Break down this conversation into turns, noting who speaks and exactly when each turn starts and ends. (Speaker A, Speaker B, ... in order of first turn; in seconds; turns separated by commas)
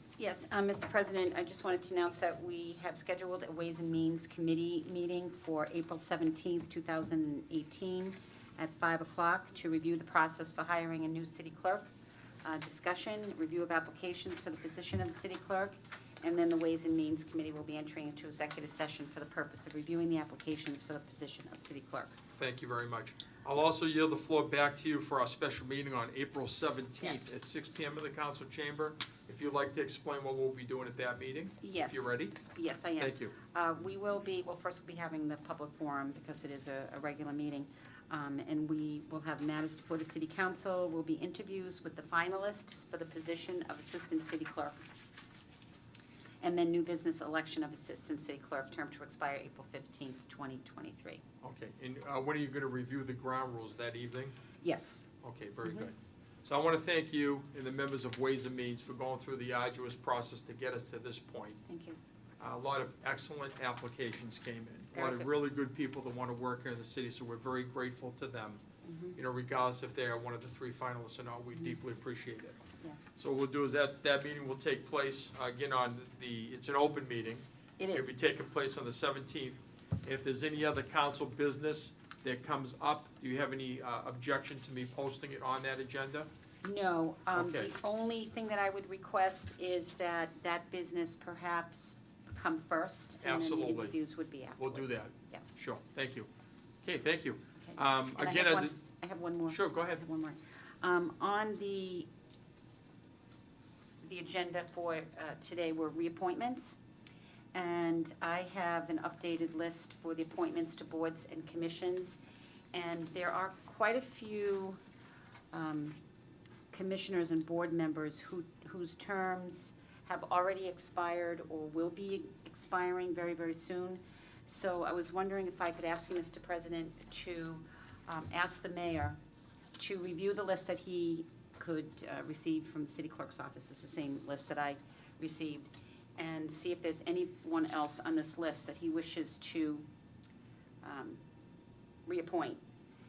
Speaker A: 0.2-11.8, Speaker A: 12.4-22.1, Speaker B: 22.4-32.4, Speaker A: 27.0-27.3, Speaker A: 31.6-44.8, Speaker B: 33.0-33.3, Speaker A: 46.4-51.2, Speaker B: 51.4-54.4, Speaker A: 54.6-55.0, Speaker B: 55.2-61.6, Speaker A: 55.6-55.9, Speaker A: 61.7-62.0, Speaker B: 62.4-68.6, Speaker A: 64.9-65.3, Speaker A: 68.8-69.2, Speaker B: 69.2-72.6, Speaker B: 73.2-86.3, Speaker A: 77.8-78.3, Speaker A: 86.6-95.5, Speaker B: 87.3-87.7, Speaker B: 93.2-94.0, Speaker B: 94.6-96.3, Speaker B: 96.8-98.7, Speaker A: 97.6-102.1, Speaker B: 99.5-100.0, Speaker A: 104.0-106.8, Speaker A: 107.5-112.2, Speaker A: 112.7-114.8, Speaker A: 115.5-116.0, Speaker A: 116.7-129.2, Speaker A: 129.8-139.8, Speaker A: 140.8-141.2, Speaker A: 142.1-142.6